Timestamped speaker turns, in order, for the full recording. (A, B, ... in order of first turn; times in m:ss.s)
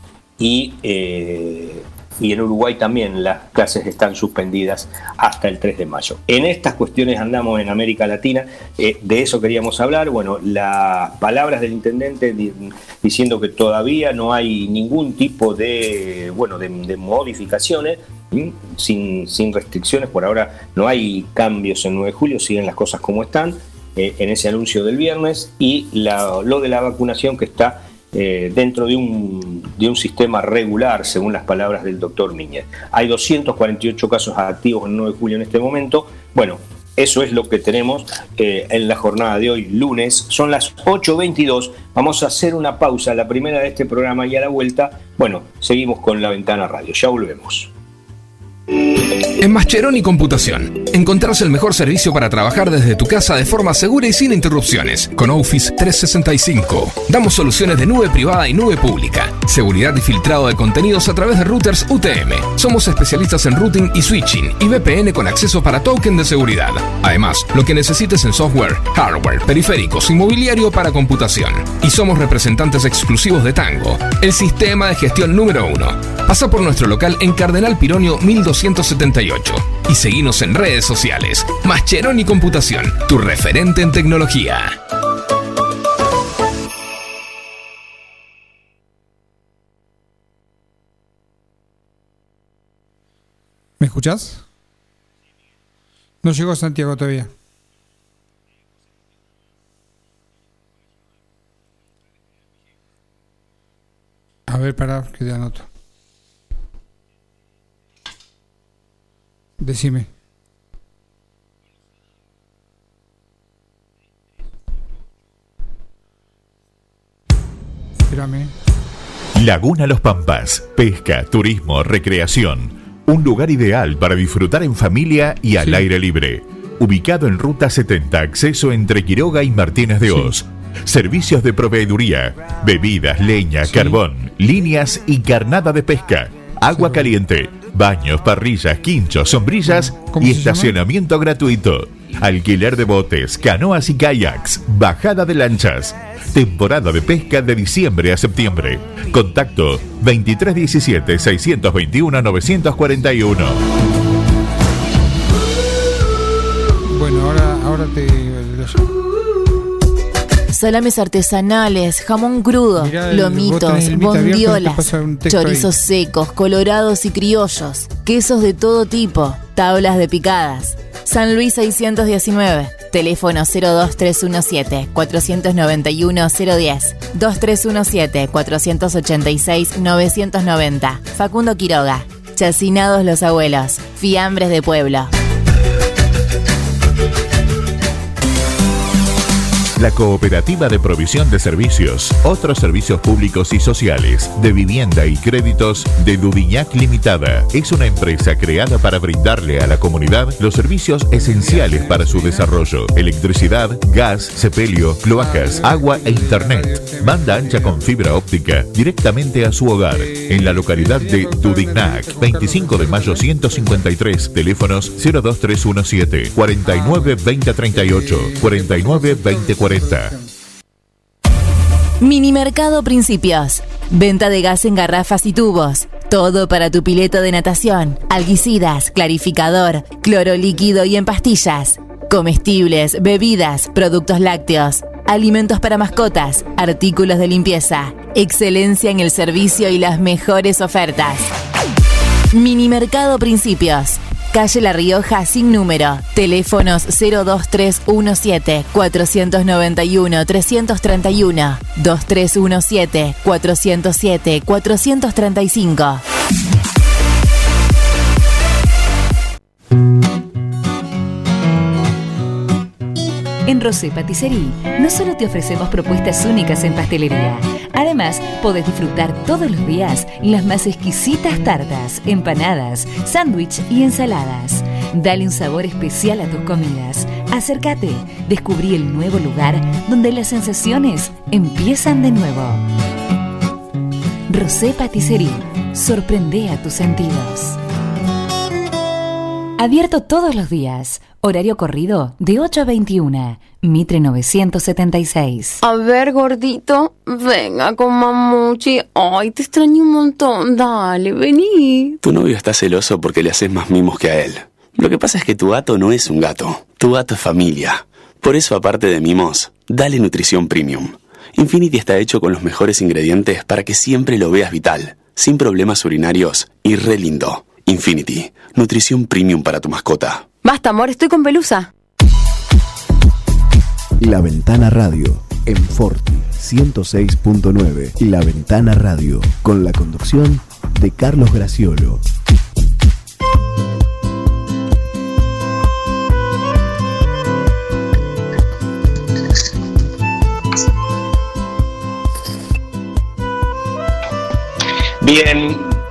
0:00.4-0:47.7 A
0:49.4-1:24.8 B
1:33.8-1:34.4 C
1:36.2-1:37.3 C
1:44.5-1:45.7 C
1:49.6-1:50.1 C
1:58.1-1:58.5 C
1:59.4-2:33.6 D
2:05.6-2:05.8 C
2:13.7-2:14.0 C
2:16.7-2:17.1 C
2:19.9-2:20.8 C
2:36.8-2:38.9 C
2:40.5-3:05.1 E
2:42.8-2:45.7 C
3:09.8-3:40.1 D
3:21.1-3:22.5 C
3:25.2-3:27.8 C
3:29.9-3:33.8 C
3:36.6-3:40.3 C
3:42.0-4:01.3 E
4:02.3-4:16.0 E
4:23.4-4:42.6 F
4:44.3-4:47.6 F
4:49.6-4:55.6 F
4:55.6-5:02.0 G
5:02.0-5:20.3 H
5:20.4-5:21.7 G
5:24.0-5:32.0 I
5:45.0-5:45.7 A